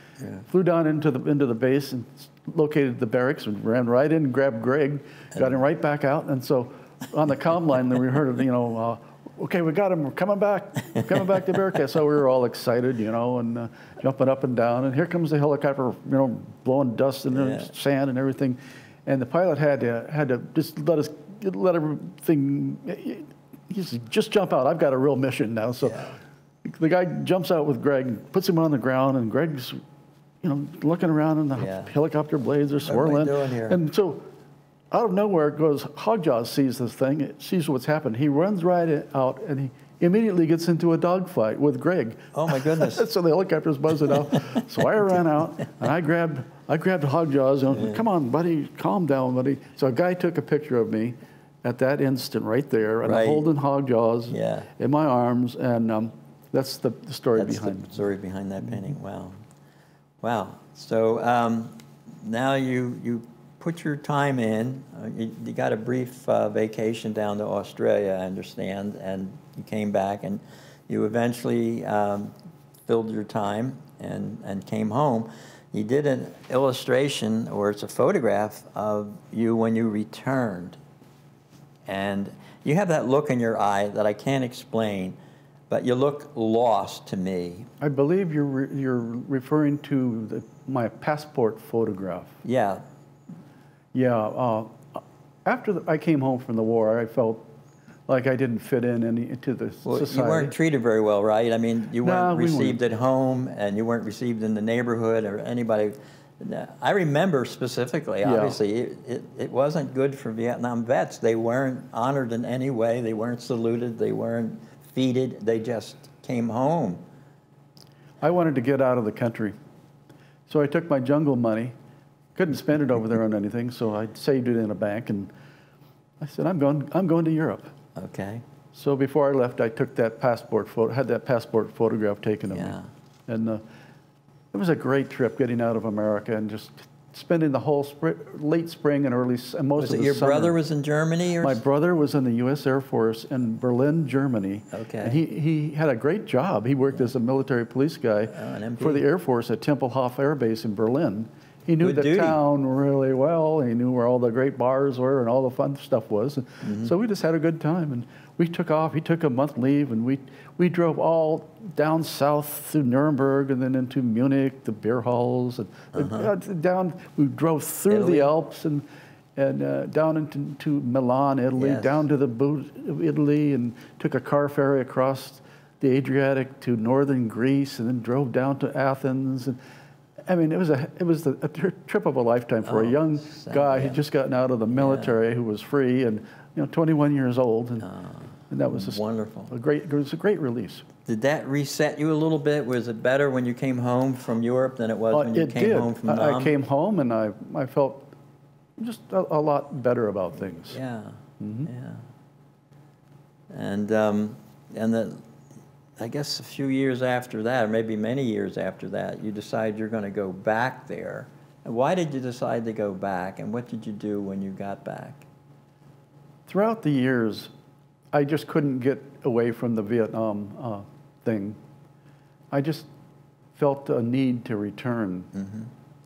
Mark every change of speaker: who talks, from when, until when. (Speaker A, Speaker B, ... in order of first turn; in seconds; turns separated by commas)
Speaker A: 0.4-26.1, Speaker B: 25.8-26.1, Speaker A: 26.6-29.8, Speaker A: 30.4-34.3, Speaker B: 31.6-31.9, Speaker B: 32.8-33.8, Speaker A: 34.9-58.0, Speaker B: 42.3-43.0, Speaker B: 53.0-53.5, Speaker B: 54.3-54.7, Speaker B: 57.4-59.4, Speaker B: 60.2-72.3, Speaker B: 72.9-80.8, Speaker B: 81.8-85.2, Speaker B: 85.7-87.7, Speaker A: 87.8-92.4, Speaker B: 92.4-92.8, Speaker A: 93.9-97.5, Speaker A: 98.1-100.5, Speaker B: 99.8-117.0, Speaker A: 102.0-102.8, Speaker A: 108.2-108.6, Speaker A: 118.2-119.5, Speaker A: 120.5-121.7, Speaker A: 122.3-125.3, Speaker A: 126.2-127.7, Speaker B: 128.0-128.4, Speaker A: 128.7-133.6, Speaker B: 132.5-132.8, Speaker A: 134.5-140.6, Speaker B: 139.8-141.6, Speaker A: 141.4-168.8, Speaker B: 144.7-145.2, Speaker B: 148.3-149.0, Speaker B: 151.8-152.4, Speaker B: 156.6-156.9, Speaker B: 165.9-166.3, Speaker B: 167.9-168.3, Speaker A: 169.3-179.6, Speaker B: 171.6-172.0, Speaker A: 180.3-187.9, Speaker B: 182.6-184.0, Speaker B: 184.7-185.1, Speaker B: 187.9-189.5, Speaker A: 188.5-190.8, Speaker B: 191.1-196.5, Speaker A: 195.1-198.1, Speaker A: 198.8-200.8, Speaker B: 200.6-202.0, Speaker A: 201.4-201.7, Speaker B: 203.5-205.2, Speaker B: 206.0-215.2, Speaker A: 216.5-217.5, Speaker A: 218.1-221.6, Speaker A: 222.5-222.9, Speaker A: 223.5-225.3, Speaker B: 225.3-225.7